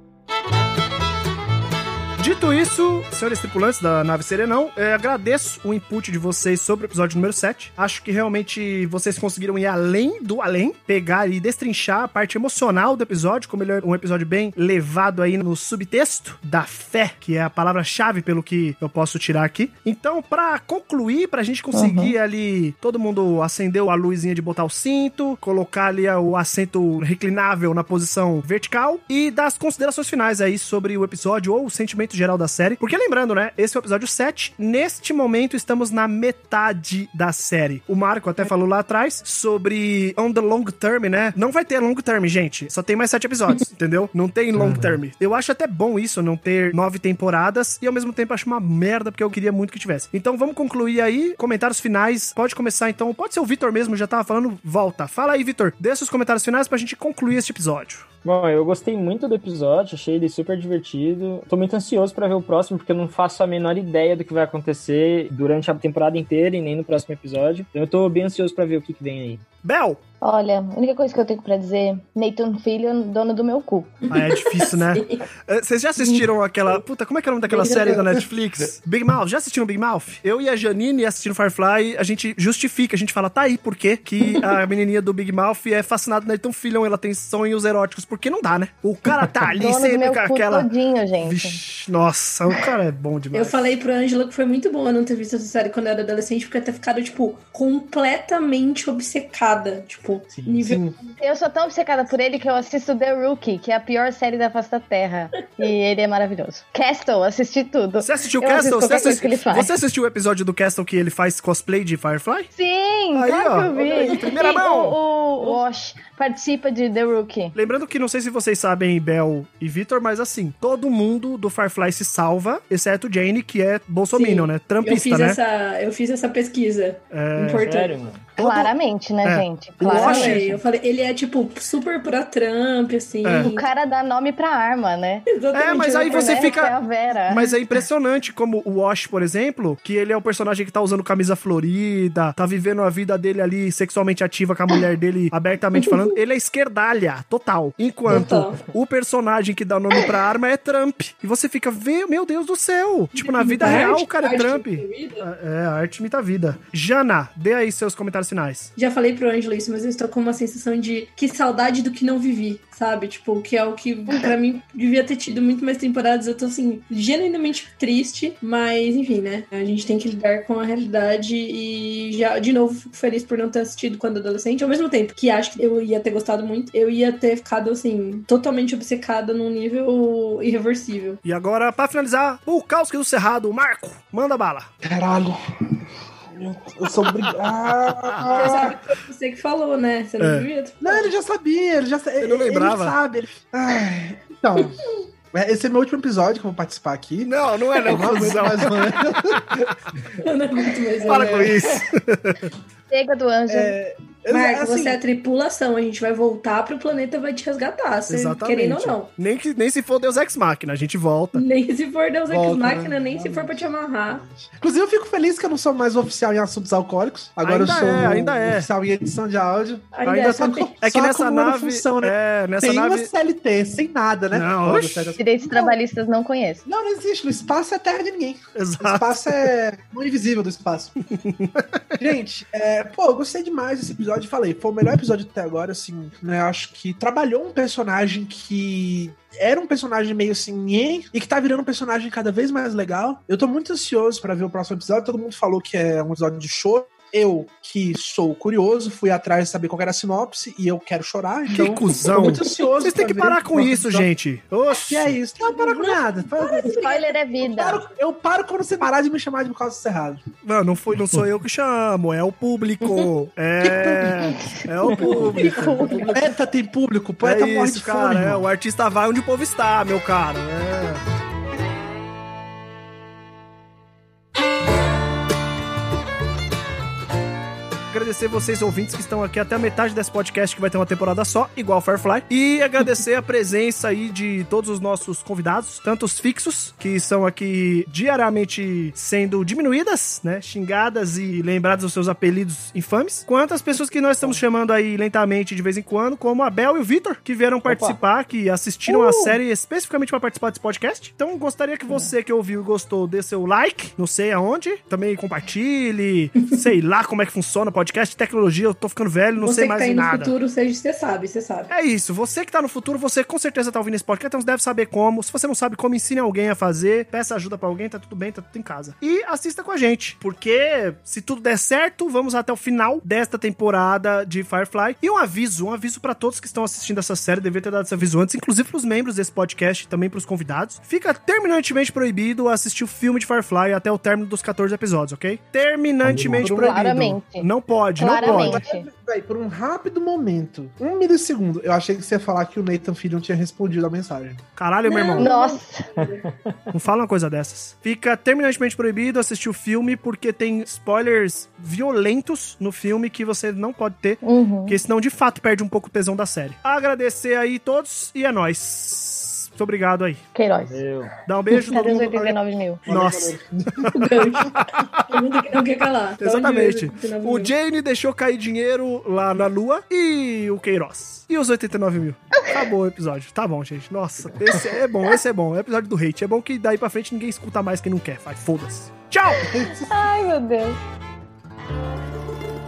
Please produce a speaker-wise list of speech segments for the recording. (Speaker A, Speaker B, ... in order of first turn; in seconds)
Speaker A: 2.2-58.0, 69.6-70.0, 74.1-93.7, 100.5-100.9, 108.0-112.5, 113.1-115.0, 117.5-125.4, 127.1-127.7, 128.3-130.6, 133.2-133.5, 135.5-158.7, 181.2-184.7, 188.2-188.5, 190.2-190.5, 192.2-192.9, 197.2-199.7, 201.1-202.5, 208.1-211.4, 217.4-218.7, 220.0-223.1, 224.3-225.2, 228.6-229.5, 231.0-232.1, 251.5-255.2, 260.4-265.9, 267.2-271.0, 277.9-310.3, 311.7-338.6, 344.6-345.3, 346.7-360.2, 361.2-365.2, 366.2-379.5
Speaker B: 21.8-22.1, 70.2-74.0, 89.5-91.6, 101.2-109.7, 112.5-117.5, 128.4-130.4, 133.3-135.4, 136.0-137.6, 202.9-203.7, 225.2-226.6, 256.7-257.8, 264.4-266.3, 336.4-338.9, 345.1-345.9, 354.2-354.8, 360.3-360.8, 361.6-362.8, 379.5-380.8
Speaker C: 58.2-69.4, 127.6-128.2, 297.6-298.0, 336.0-336.4, 346.0-346.6, 360.7-361.1
Speaker D: 74.0-75.2, 77.5-78.2, 93.3-101.1, 124.1-128.0, 129.9-133.6, 135.3-136.6, 145.8-146.2, 148.1-148.6, 153.1-155.2, 158.8-181.2, 188.3-191.1, 200.2-201.8, 204.3-209.1, 211.3-214.2, 219.9-220.7, 255.4-257.3, 262.8-263.1, 264.9-266.0, 298.9-299.2, 309.4-311.7, 344.9-346.2, 363.9-367.5
Speaker E: 184.8-188.8, 190.8-199.7, 201.1-201.6, 203.5-205.0, 212.3-225.7, 226.7-230.9, 232.0-254.1, 254.8-260.2, 263.6-264.2, 266.0-268.4, 338.1-344.4, 362.9-363.9, 379.5-379.9